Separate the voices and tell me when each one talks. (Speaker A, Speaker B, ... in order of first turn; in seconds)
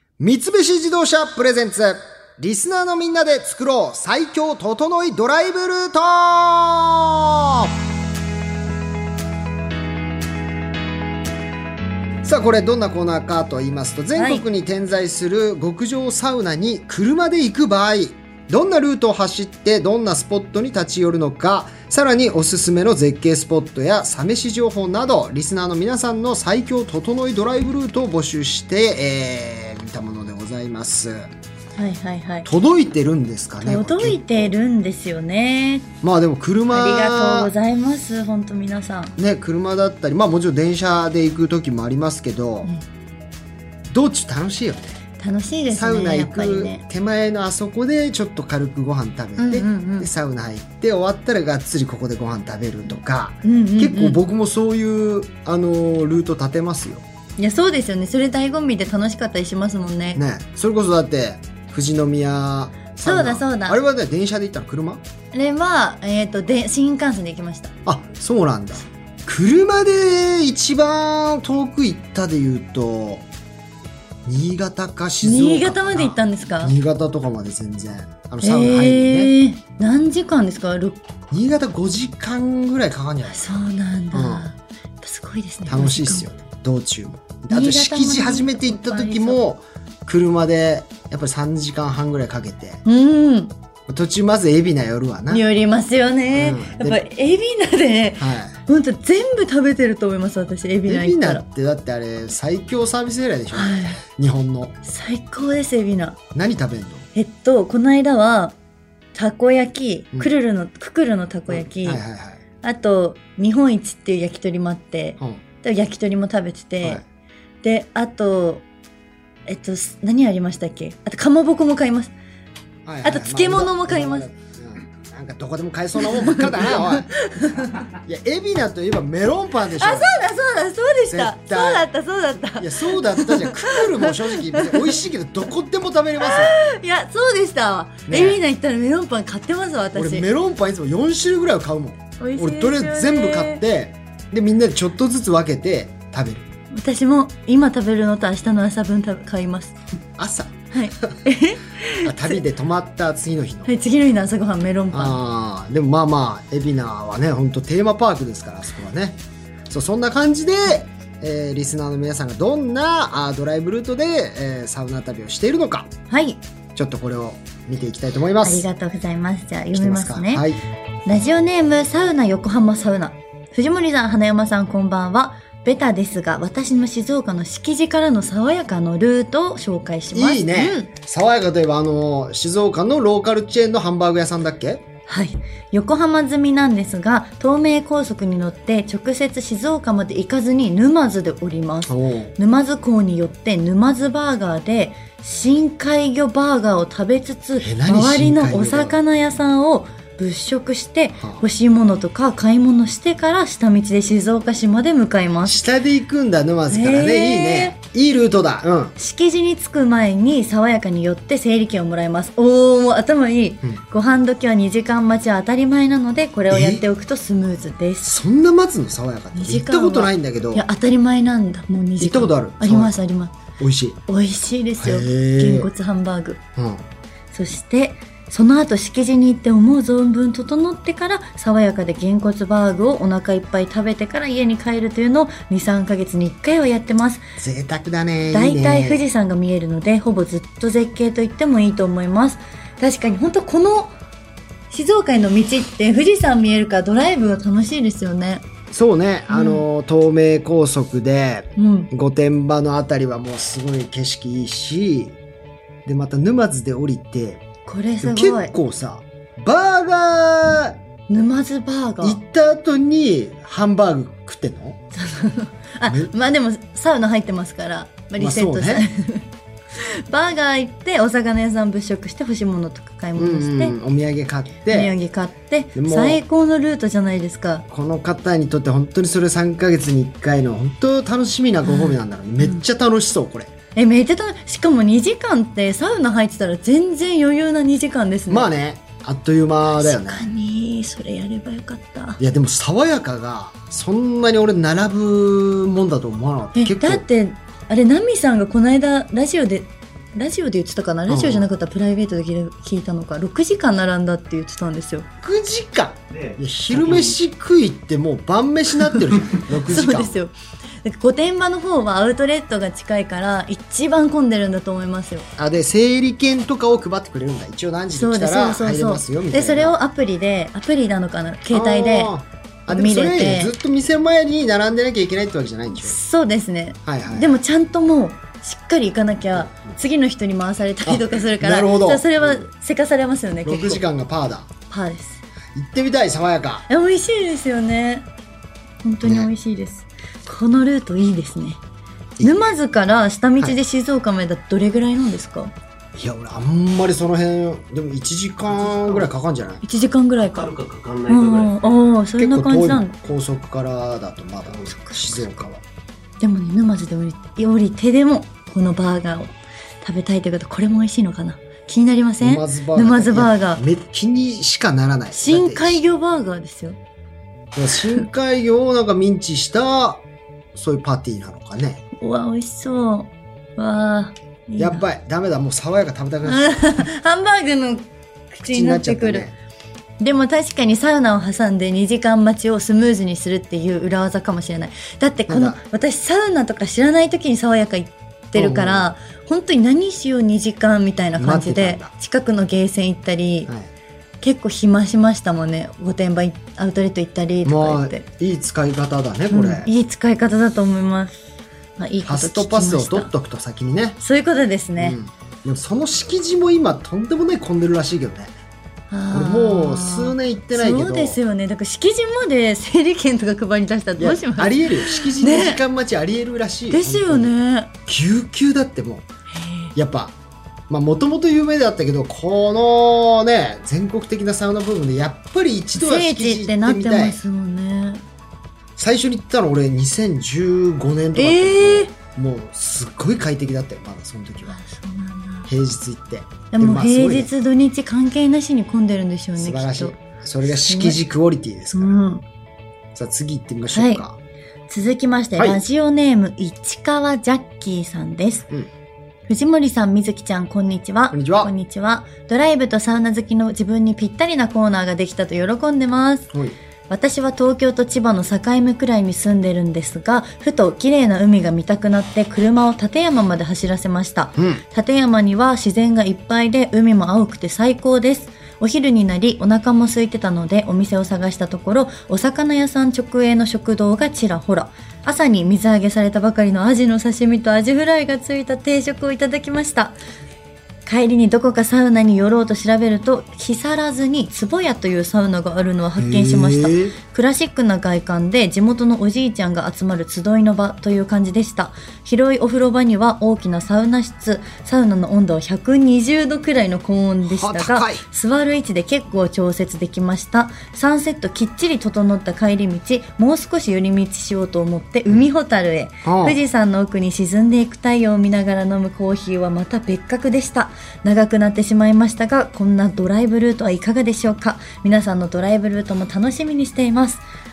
Speaker A: 0.2-7.7, 12.2-31.3, 32.4-34.5, 36.0-37.5, 39.2-42.7, 43.9-45.0, 45.7-57.0, 60.1-65.0, 67.8-73.2, 74.2-79.3, 81.3-84.5, 85.6-92.8, 93.9-95.4, 96.3-97.0, 98.2-98.6, 100.8-104.8, 106.3-107.1, 111.5-112.4, 122.8-127.1, 127.9-130.2, 131.1-131.9, 132.5-136.6, 138.1-138.4, 139.9-146.5, 150.2-151.2, 152.0-153.7, 154.9-165.9, 166.7-168.7, 169.7-170.6, 180.1-184.8, 191.9-192.3, 197.6-199.0, 201.2-201.4, 205.4-208.9, 216.5-216.8, 218.0-220.6, 222.0-223.0, 223.6-224.0, 224.8-225.7, 226.6-226.8, 237.4-239.0, 248.7-255.2, 255.8-257.4, 258.0-260.8, 262.0-264.8, 265.9-266.1, 268.2-268.9, 273.1-274.9, 275.7-276.2, 277.7-283.5, 288.3-290.3, 292.2-297.0, 301.1-301.5, 305.2-310.2, 315.4-319.8, 321.5-325.9, 326.8-327.3, 330.8-332.4, 333.4-334.5, 335.5-336.7, 339.0-339.3, 342.2-342.5, 345.9-349.6, 352.2-355.6, 362.2-365.8, 367.5-371.8, 374.6-376.8, 378.4-379.3, 385.3-385.6, 388.3-388.9, 391.1-391.9, 397.4-399.7, 402.0-404.0, 404.8-408.3, 409.1-411.2, 414.0-417.3, 417.9-419.1, 419.7-420.1, 420.7-427.2, 428.8-434.6, 435.5-437.3, 439.4-442.0, 442.9-444.2, 445.4-445.6, 451.1-451.5, 464.4-464.6, 486.0-487.0, 497.2-498.0, 506.0-506.4
Speaker B: 14.1-14.4, 31.8-32.5, 33.6-35.9, 36.7-39.1, 45.2-46.8, 49.4-50.1, 53.4-54.2, 57.4-60.2, 63.0-63.8, 65.3-67.7, 75.2-76.7, 78.4-81.0, 83.2-86.3, 87.5-89.4, 92.8-93.5, 95.3-101.4, 103.5-104.0, 104.8-106.2, 107.1-108.5, 109.1-112.0, 112.6-117.0, 117.6-118.6, 119.5-122.1, 123.0-124.3, 126.0-127.8, 129.8-135.0, 136.2-140.3, 142.2-143.6, 146.7-149.7, 150.7-152.4, 153.6-155.2, 166.1-166.4, 168.4-170.4, 171.1-180.9, 185.1-205.7, 206.7-207.8, 209.0-218.1, 219.3-223.3, 224.1-226.4, 227.3-237.3, 238.3-243.9, 244.7-248.4, 249.3-249.6, 251.6-251.9, 257.6-258.5, 261.1-262.2, 264.9-273.8, 274.7-277.6, 281.6-282.6, 283.8-288.5, 289.7-292.2, 296.5-305.1, 309.6-315.3, 317.9-322.1, 322.7-323.5, 325.8-333.8, 334.7-335.2, 336.7-338.1, 338.8-341.6, 342.2-345.5, 349.6-350.5, 351.1-352.9, 354.6-355.3, 356.2-363.6, 365.1-366.8, 371.9-374.8, 376.2-379.3, 380.0-393.5, 394.2-398.0, 399.3-401.2, 401.8-403.1, 404.0-405.0, 408.9-415.6, 416.7-417.7, 419.3-419.7, 425.7-428.0, 431.1-431.9, 434.4-435.5, 436.5-441.0, 441.7-442.2, 443.7-444.0, 444.7-448.5, 449.3-456.3, 456.9-480.0, 480.9-517.2
Speaker C: 306.1-307.1, 350.2-351.7